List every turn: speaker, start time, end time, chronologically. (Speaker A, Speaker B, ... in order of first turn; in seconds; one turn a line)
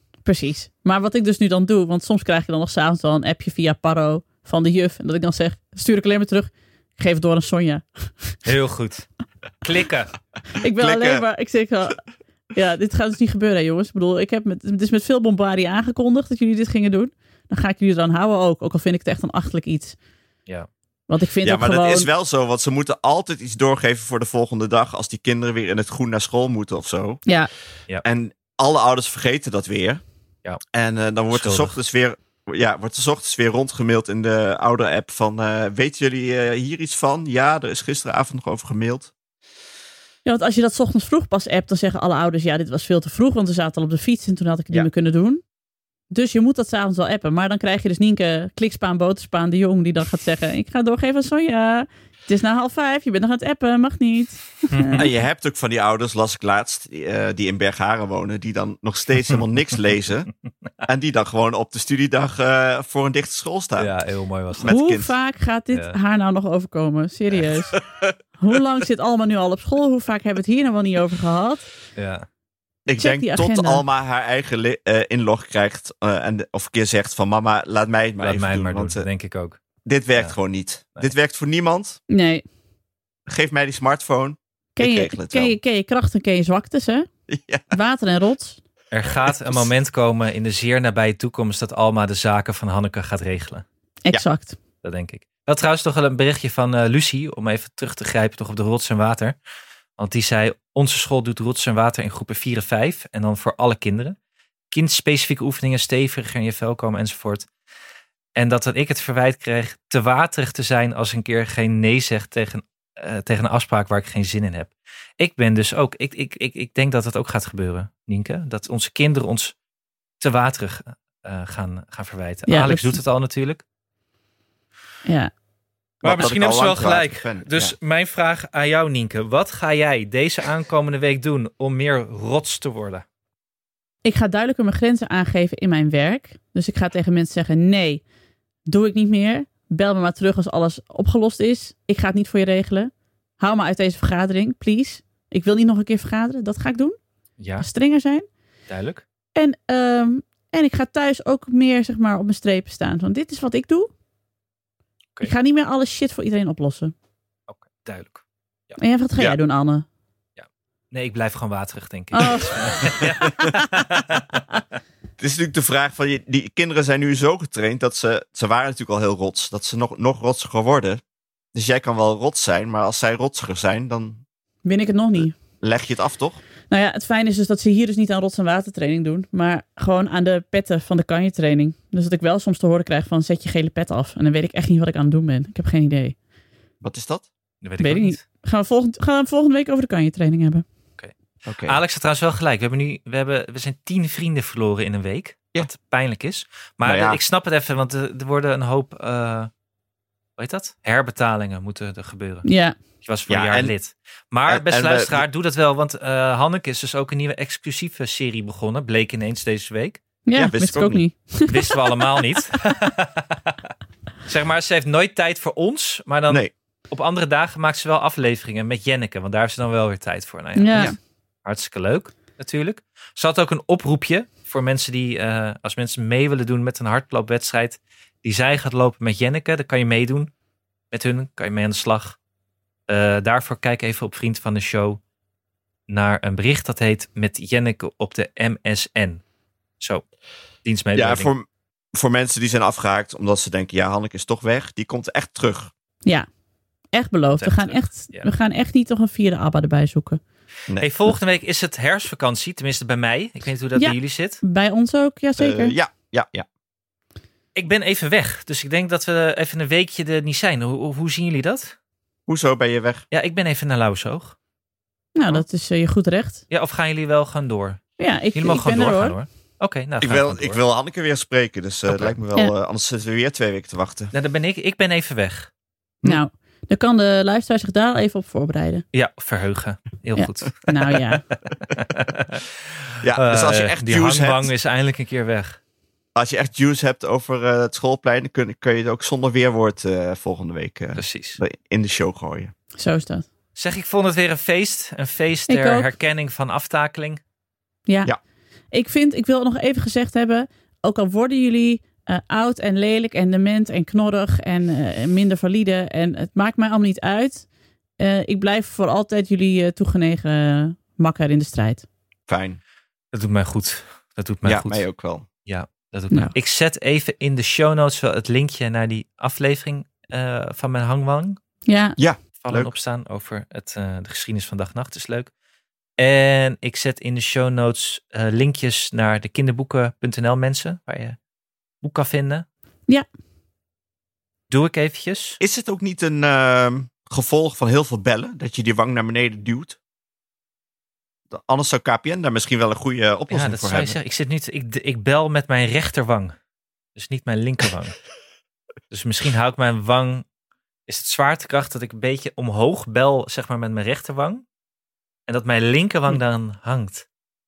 Speaker A: 0.2-8.4
Speaker B: 8.4-9.1
Speaker B: 9.6-10.1
Speaker A: 10.6-12.0
Speaker C: 10.8-11.2
Speaker A: 12.5-19.9
Speaker A: 21.1-22.1
Speaker C: 21.4-27.2
Speaker C: 28.0-30.0
Speaker C: 30.7-39.1
Speaker B: 31.3-31.8
Speaker A: 40.2-45.4
Speaker A: 46.1-55.0
Speaker B: 54.7-55.0
Speaker C: 55.0-60.3
Speaker C: 60.8-63.9
Speaker B: 63.8-64.7
Speaker C: 64.5-65.1
Speaker A: 64.6-67.7
Speaker C: 67.8-68.1
Speaker A: 68.4-71.7
Speaker B: 72.0-72.2
Speaker C: 72.8-79.0
Speaker A: 72.9-73.8
Speaker B: 78.2-79.6
Speaker C: 79.8-82.0
Speaker A: 82.1-82.4
Speaker C: 83.3-85.6
Speaker A: 84.8-87.1
Speaker C: 87.3-87.7
Speaker A: 87.7-88.6
Speaker B: 88.9-93.6
Speaker C: 89.3-89.7
Speaker A: 94.0-94.6
Speaker B: 94.8-99.3
Speaker B: 100.0-104.2
Speaker B: 104.7-107.5
Speaker B: 108.3-119.5
Speaker B: 120.2-123.6
Speaker A: 122.5-123.0
Speaker A: 125.0-125.3
Speaker C: 126.0-127.8
Speaker B: 126.0-133.0
Speaker A: 134.0-138.0
Speaker A: 138.7-146.9
Speaker B: 147.4-147.7
Speaker A: 147.6-148.2
Speaker B: 148.7-149.0
Speaker A: 149.3-153.9
Speaker A: 155.2-156.9
Speaker B: 157.5-158.8
Speaker A: 158.8-159.8
Speaker B: 160.4-164.4
Speaker A: 162.1-163.5
Speaker C: 165.2-171.0
Speaker C: 171.5-174.2
Speaker A: 174.6-175.4
Speaker C: 175.6-176.4
Speaker A: 176.7-186.2
Speaker C: 186.8-187.2
Speaker B: 187.6-188.2
Speaker A: 187.8-190.6
Speaker C: 191.4-191.8
Speaker B: 191.6-199.5
Speaker C: 196.8-197.2
Speaker B: 200.4-202.5
Speaker A: 202.4-202.7
Speaker B: 203.0-210.0
Speaker C: 203.3-203.7
Speaker C: 204.5-205.2
Speaker A: 210.2-212.4
Speaker C: 210.3-211.0
Speaker B: 211.5-213.6
Speaker B: 214.3-230.3
Speaker A: 220.6-220.9
Speaker B: 230.9-232.2
Speaker B: 232.9-235.0
Speaker B: 235.9-239.2
Speaker B: 240.6-241.3
Speaker C: 240.9-245.7
Speaker A: 246.9-250.2
Speaker B: 247.4-248.3
Speaker B: 250.8-254.4
Speaker A: 253.8-255.7
Speaker C: 255.4-256.5
Speaker B: 257.6-261.7
Speaker C: 262.3-263.0
Speaker B: 263.1-264.4
Speaker A: 265.1-266.4
Speaker B: 266.5-270.6
Speaker A: 268.0-269.1
Speaker C: 270.0-274.1
Speaker B: 271.9-272.1
Speaker B: 274.1-275.5
Speaker A: 276.0-278.8
Speaker B: 278.9-280.7
Speaker A: 280.1-281.2
Speaker B: 281.7-282.4
Speaker C: 283.0-284.5
Speaker B: 283.1-285.6
Speaker C: 286.1-292.5
Speaker B: 290.9-291.4
Speaker A: 292.8-293.3
Speaker B: 293.5-297.2
Speaker A: 295.5-295.9
Speaker A: 298.7-307.4
Speaker A: 308.0-311.8
Speaker C: 312.3-312.6
Speaker B: 313.1-314.8
Speaker C: 314.4-315.2
Speaker B: 315.4-321.4
Speaker A: 321.7-322.0
Speaker C: 322.0-322.7
Speaker B: 322.4-325.3
Speaker B: 326.0-331.2
Speaker B: 331.8-332.4
Speaker B: 334.5-335.4
Speaker C: 335.4-339.8
Speaker C: 341.3-344.0
Speaker B: 343.3-346.3
Speaker B: 346.9-348.0
Speaker B: 348.9-350.2
Speaker B: 350.9-354.4
Speaker B: 355.3-357.1